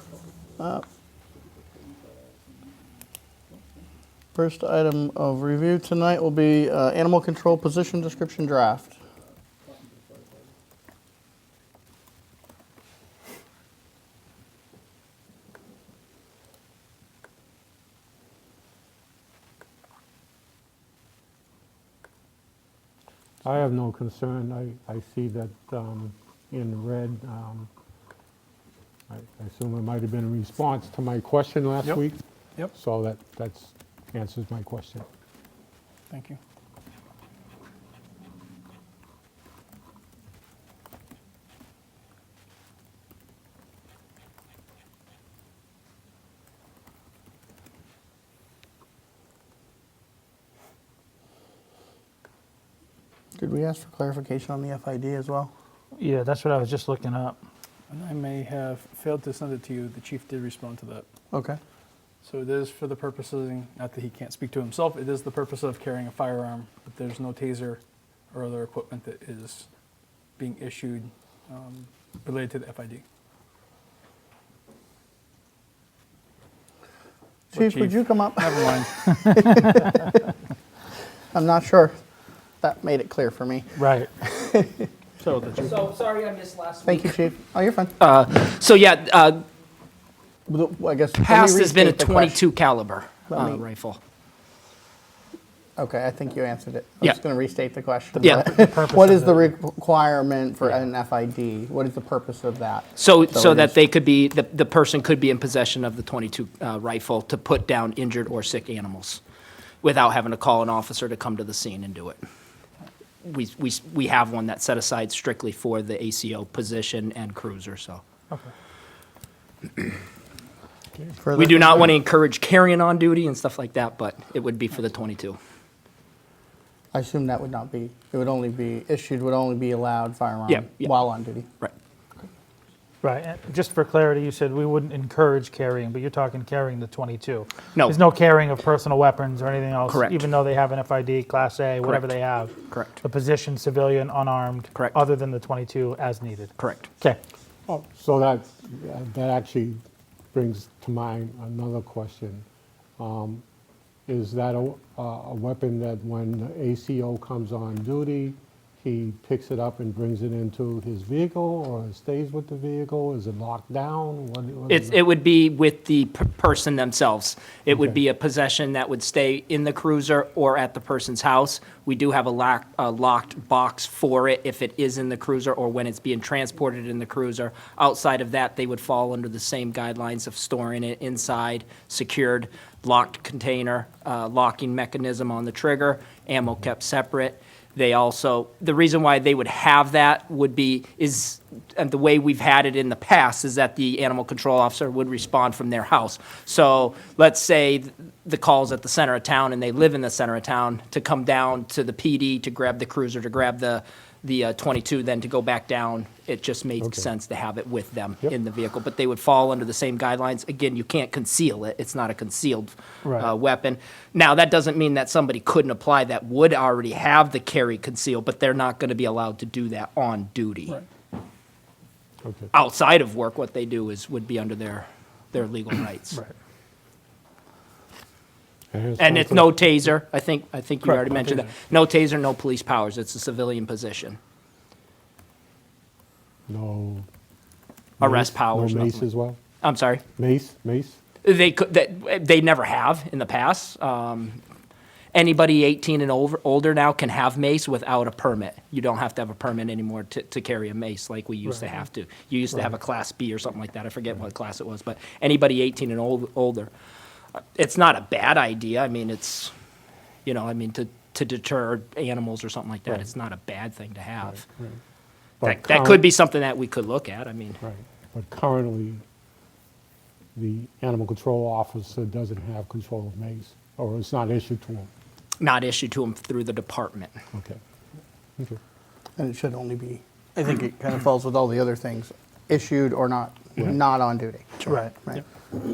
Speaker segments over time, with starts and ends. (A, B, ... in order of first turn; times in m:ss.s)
0:00.6-0:00.8 A
0:04.4-0:09.0 A
0:23.4-0:27.7 B
0:29.1-0:32.2 B
0:32.7-0:35.1 B
0:36.1-0:36.4 C
0:53.4-0:55.5 A
0:56.0-0:57.4 D
0:57.9-1:01.0 C
1:01.3-1:01.6 A
1:02.2-1:07.8 C
1:08.3-1:09.7 C
1:10.4-1:13.0 C
1:17.5-1:18.9 C
1:17.5-1:20.1 A
1:19.1-1:20.0 D
1:21.3-1:22.0 A
1:22.6-1:24.9 A
1:23.8-1:24.1 D
1:25.2-1:25.7 C
1:26.0-1:26.8 E
1:26.8-1:28.0 A
1:28.0-1:29.4 E
1:30.5-1:32.4 A
1:31.2-1:34.0 E
1:33.3-1:33.6 A
1:35.8-1:43.8 A
1:38.2-1:39.5 D
1:38.2-1:38.5 E
1:43.0-1:49.2 E
1:49.8-1:52.2 E
1:53.2-1:58.0 E
2:01.2-2:02.0 A
2:01.4-2:05.4 E
2:06.9-2:11.5 A
2:10.5-2:10.9 E
2:13.0-2:27.2 D
2:19.9-2:20.3 E
2:21.8-2:22.1 E
2:22.7-2:23.0 E
2:26.6-2:26.9 E
2:27.7-2:29.8 B
2:30.3-2:32.4 B
2:33.0-2:33.4 B
2:34.1-2:45.0 B
2:44.7-3:40.8 E
3:26.8-3:27.1 B
3:33.0-3:33.3 D
3:42.2-3:42.5 B
3:42.5-3:46.2 E
3:48.7-3:49.8 B
3:49.0-3:54.2 E
3:56.5-3:57.1 B
3:58.0-3:59.1 E
3:58.0-3:59.4 B
3:59.6-4:00.0 E
4:00.2-4:01.0 B
4:01.2-4:04.4 E
4:05.1-4:16.7 E
4:17.6-4:19.5 E
4:20.2-4:24.4 E
4:24.4-4:24.8 B
4:25.4-4:26.0 B
4:25.4-4:27.6 E
4:27.6-4:29.0 B
4:30.4-4:34.9 B
4:35.4-4:37.1 E
4:37.3-4:37.6 B
4:39.2-4:45.2 A
4:44.6-4:45.0 D